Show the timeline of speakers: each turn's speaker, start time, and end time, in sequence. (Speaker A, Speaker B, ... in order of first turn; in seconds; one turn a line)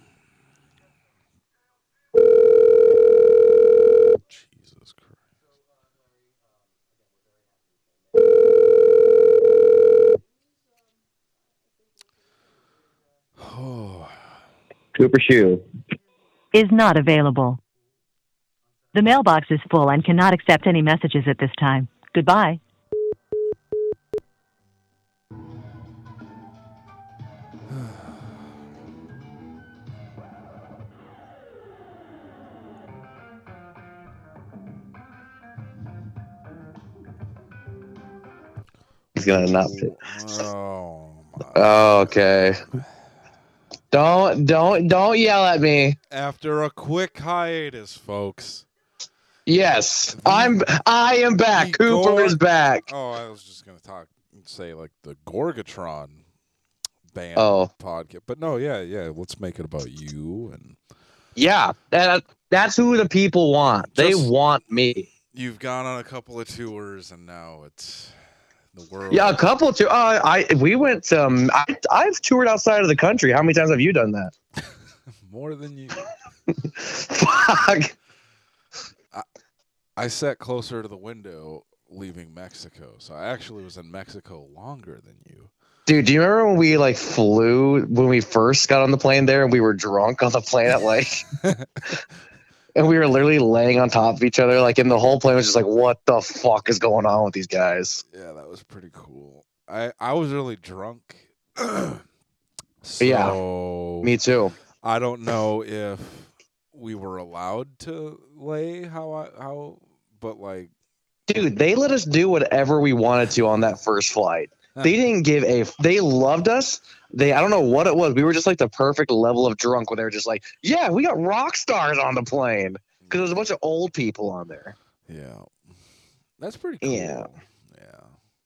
Speaker A: 4.3-5.2
Speaker A: 13.4-14.2
Speaker B: 15.0-15.6
Speaker C: 16.5-17.6
Speaker C: 18.9-22.6
Speaker B: 39.1-39.9
Speaker A: 39.4-42.1
Speaker B: 41.5-42.7
Speaker B: 43.9-46.0
Speaker A: 46.1-48.7
Speaker B: 49.5-52.9
Speaker A: 50.1-50.7
Speaker A: 51.5-56.2
Speaker A: 57.1-60.8
Speaker B: 57.4-57.7
Speaker B: 61.4-65.1
Speaker A: 63.9-64.3
Speaker A: 65.3-68.2
Speaker A: 68.7-69.4
Speaker B: 69.1-74.3
Speaker A: 75.2-76.0
Speaker B: 76.5-77.9
Speaker A: 80.0-85.5
Speaker B: 85.9-91.3
Speaker A: 91.4-91.9
Speaker B: 92.8-98.0
Speaker A: 98.1-102.0
Speaker A: 102.8-104.1
Speaker B: 103.0-103.4
Speaker B: 104.0-104.6
Speaker A: 104.8-110.7
Speaker B: 111.3-124.8
Speaker A: 125.1-125.5
Speaker A: 126.4-128.2
Speaker B: 126.8-127.3